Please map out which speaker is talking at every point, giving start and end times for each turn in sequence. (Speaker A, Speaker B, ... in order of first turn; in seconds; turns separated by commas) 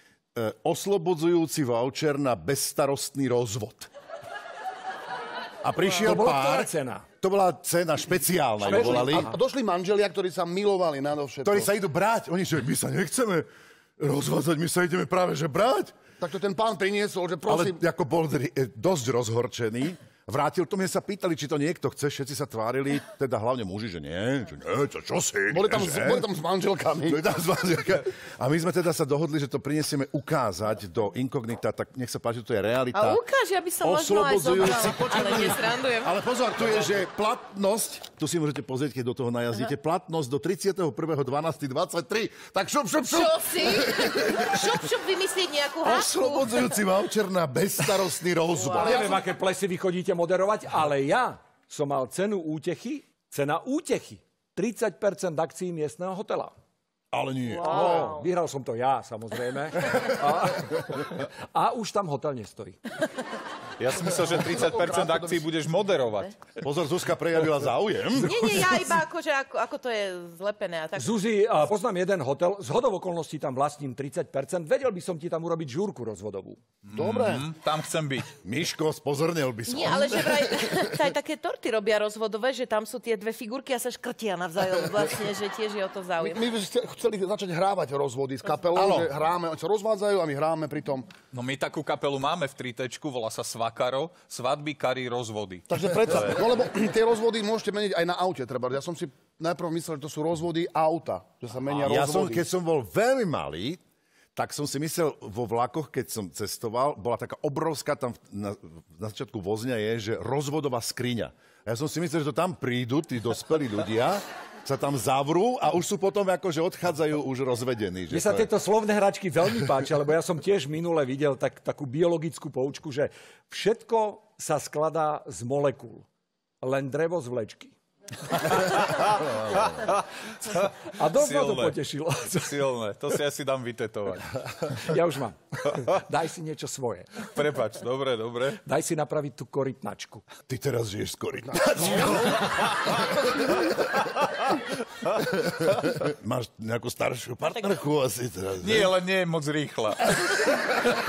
Speaker A: 0.3-3.9, Speaker A: 5.6-9.3, Speaker B: 6.0-7.0, Speaker B: 8.6-9.3, Speaker C: 8.7-11.7, Speaker A: 11.4-13.5, Speaker A: 14.0-16.0, Speaker C: 16.2-17.8, Speaker A: 17.5-26.3, Speaker C: 25.5-27.2, Speaker A: 27.1-33.2, Speaker D: 32.9-36.1, Speaker A: 33.8-44.8, Speaker D: 43.1-46.7, Speaker A: 45.8-49.2, Speaker D: 48.6-49.0, Speaker B: 48.8-56.5, Speaker A: 57.1-58.1, Speaker D: 57.6-58.3, Speaker B: 57.6-62.8, Speaker E: 63.8-66.4, Speaker C: 64.8-65.4, Speaker A: 66.6-68.4, Speaker D: 68.2-71.2, Speaker B: 70.9-76.6, Speaker E: 76.9-78.3, Speaker C: 76.9-77.5, Speaker A: 78.4-80.9, Speaker D: 79.7-86.4, Speaker C: 86.2-91.1, Speaker A: 88.7-89.1, Speaker E: 91.3-96.5, Speaker C: 95.7-102.5, Speaker A: 101.8-103.8, Speaker A: 104.3-118.5, Speaker B: 118.1-126.1, Speaker B: 126.6-127.8, Speaker B: 128.3-128.8, Speaker E: 128.7-131.8, Speaker B: 130.9-132.7, Speaker E: 132.4-134.3, Speaker B: 134.6-137.3, Speaker E: 137.3-138.6, Speaker B: 138.6-140.2, Speaker A: 140.5-142.7, Speaker C: 141.7-142.4, Speaker A: 145.2-148.9, Speaker E: 148.6-150.2